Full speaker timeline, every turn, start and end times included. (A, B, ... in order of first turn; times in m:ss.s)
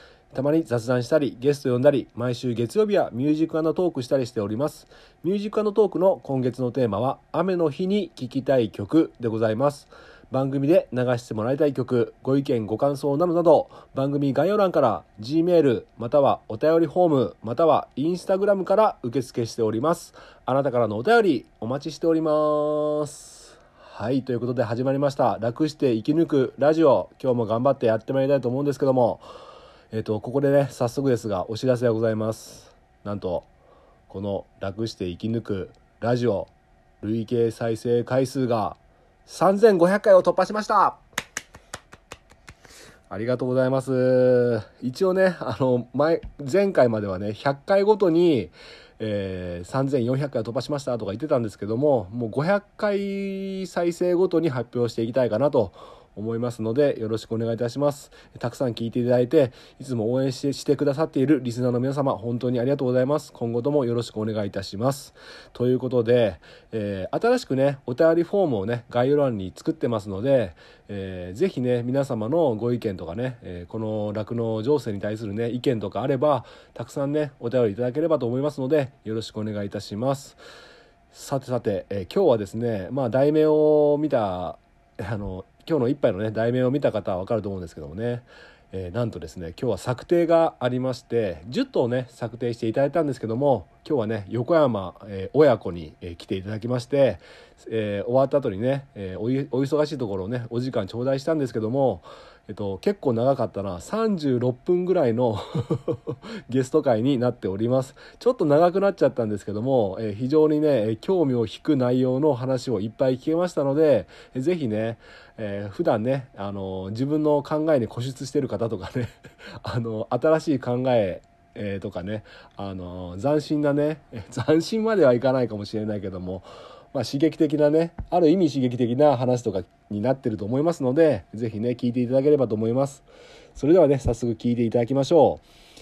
0:00.3-0:29.3 A
0:29.9-0:33.5 A
0:34.1-0:41.0 A
0:43.1-1:20.4 A
1:21.1-2:15.4 A